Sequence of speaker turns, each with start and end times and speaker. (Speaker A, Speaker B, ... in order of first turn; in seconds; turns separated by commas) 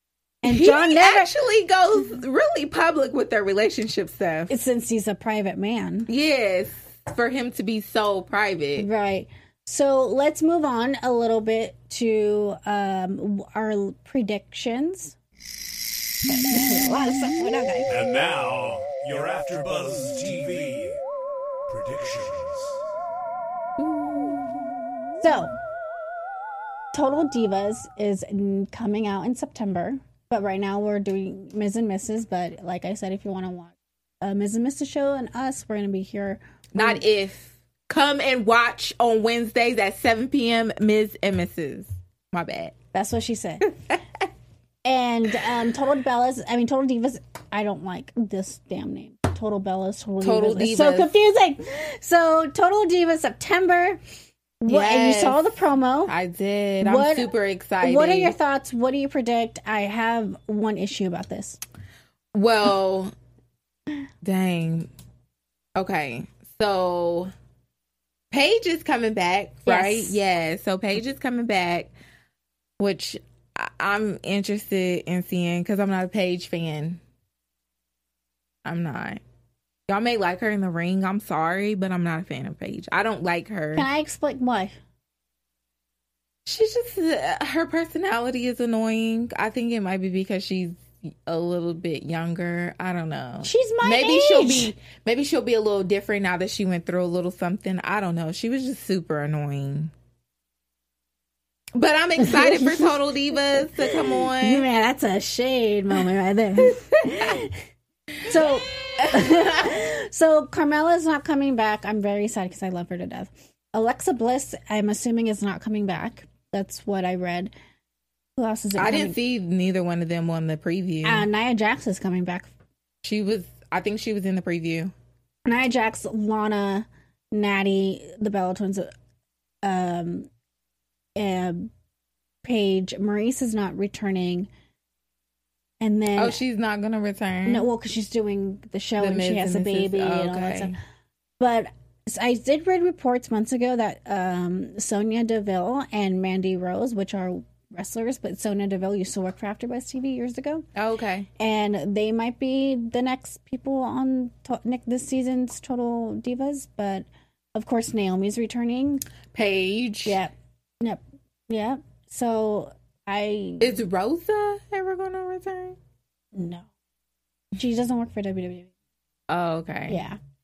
Speaker A: 0.4-4.5, Speaker B: 0.4-1.3, Speaker B: 4.5-6.1, Speaker A: 6.1-8.9, Speaker B: 8.8-15.2, Speaker B: 16.3-17.9, Speaker C: 17.9-21.0, Speaker C: 21.7-22.8, Speaker B: 25.2-25.6, Speaker B: 26.9-37.0, Speaker A: 36.8-42.8, Speaker B: 42.9-43.8, Speaker B: 44.9-54.0, Speaker A: 50.2-51.1, Speaker B: 54.6-56.1, Speaker A: 54.6-55.5, Speaker A: 56.1-58.4, Speaker B: 56.8-61.6, Speaker A: 62.3-63.1, Speaker A: 64.2-64.9, Speaker A: 65.8-67.3, Speaker A: 68.3-71.9, Speaker B: 69.7-70.2, Speaker A: 72.8-77.0, Speaker A: 78.6-79.2, Speaker A: 79.9-83.9, Speaker B: 83.8-84.8, Speaker A: 86.5-99.9, Speaker B: 93.4-94.7, Speaker A: 101.8-104.6, Speaker B: 102.2-102.9, Speaker B: 103.7-107.6, Speaker A: 106.6-107.4, Speaker B: 108.2-117.5, Speaker A: 108.3-109.8, Speaker B: 118.4-119.2, Speaker A: 118.8-121.3, Speaker B: 121.0-122.5, Speaker A: 123.0-124.9, Speaker B: 125.5-128.9, Speaker B: 129.6-130.3, Speaker B: 131.2-131.7, Speaker B: 132.4-134.5, Speaker B: 135.8-136.4, Speaker A: 136.2-137.7, Speaker B: 137.4-140.7, Speaker A: 139.0-140.7, Speaker B: 141.4-150.7, Speaker A: 150.8-151.3, Speaker B: 151.4-159.0, Speaker A: 159.3-160.2, Speaker B: 160.1-163.7, Speaker A: 163.6-165.8, Speaker B: 166.3-166.7, Speaker B: 167.6-168.7, Speaker A: 169.3-170.0, Speaker B: 169.9-170.2